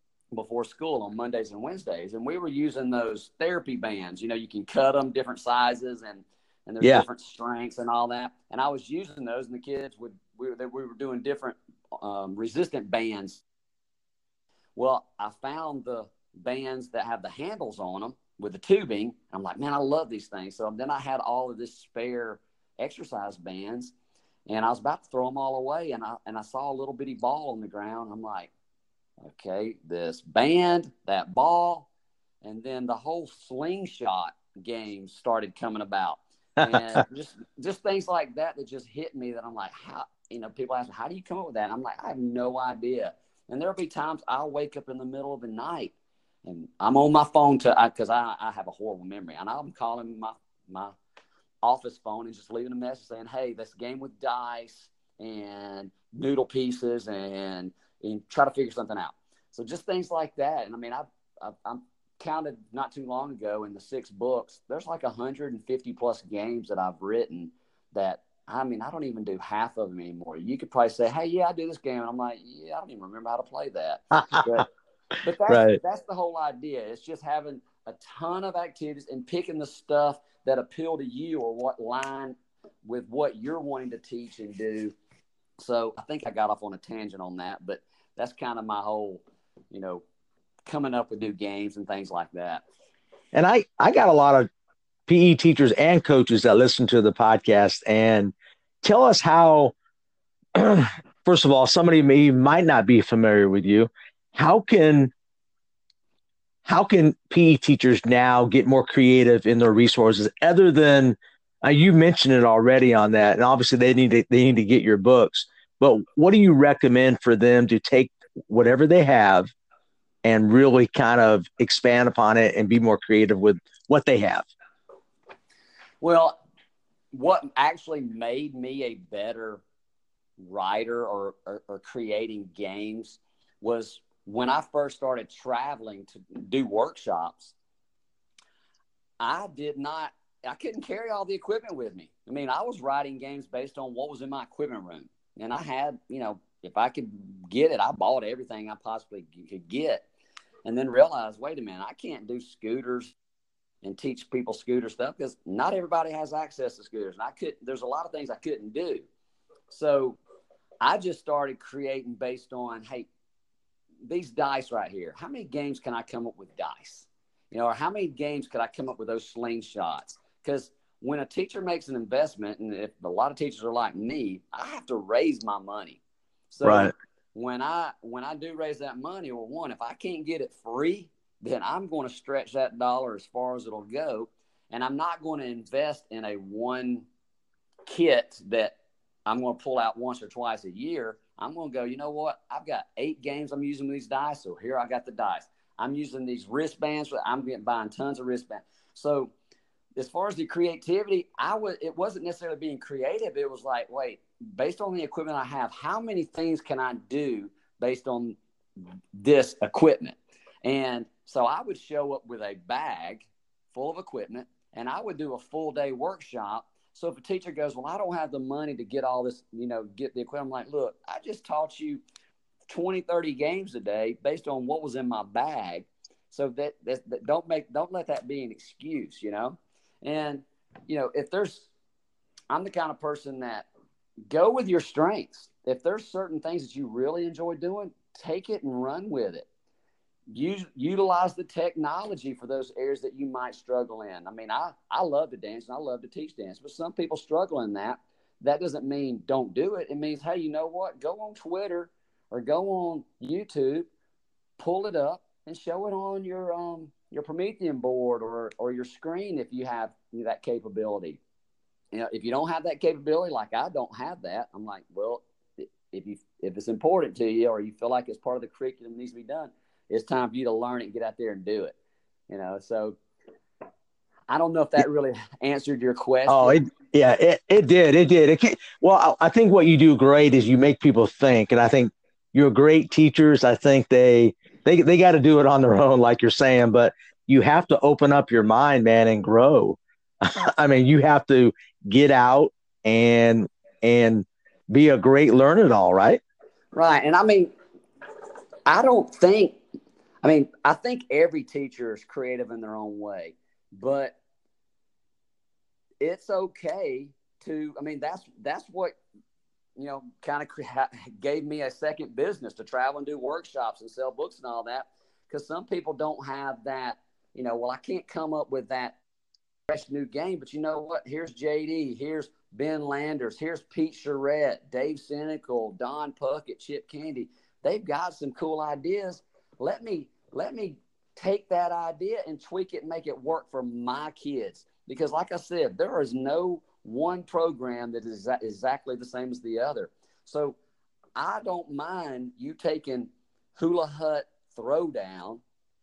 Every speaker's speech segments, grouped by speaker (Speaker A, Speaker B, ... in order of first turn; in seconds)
Speaker A: 0.3-13.4, 14.8-23.9, 24.5-28.5, 29.2-31.9, 32.4-45.9, 46.5-51.0, 51.6-74.7, 75.2-84.9, 85.6-90.0, 90.7-92.6, 126.0-126.4, 127.1-129.6, 130.4-137.5, 139.2-150.1, 150.7-153.1, 153.8-159.1, 159.7-160.2, 160.8-163.1, 164.1-176.0, 176.5-187.1, 187.9-199.3, 200.0-208.4, 209.1-222.0, 222.7-231.7, 232.5-233.7, 234.3-239.5, 240.3-253.9, 254.6-261.2, 261.9-271.8, 272.3-273.0, 274.3-276.6, 296.7-297.5, 298.7-299.6, 300.2-304.2, 306.0-309.0, 309.8-319.0, 319.7-340.6, 341.2-345.4
Speaker B: 36.7-37.0, 74.3-74.6, 75.5-75.8, 93.3-94.5, 95.1-99.7, 100.6-105.1, 106.7-119.5, 120.2-124.5, 176.6-176.9, 276.3-296.2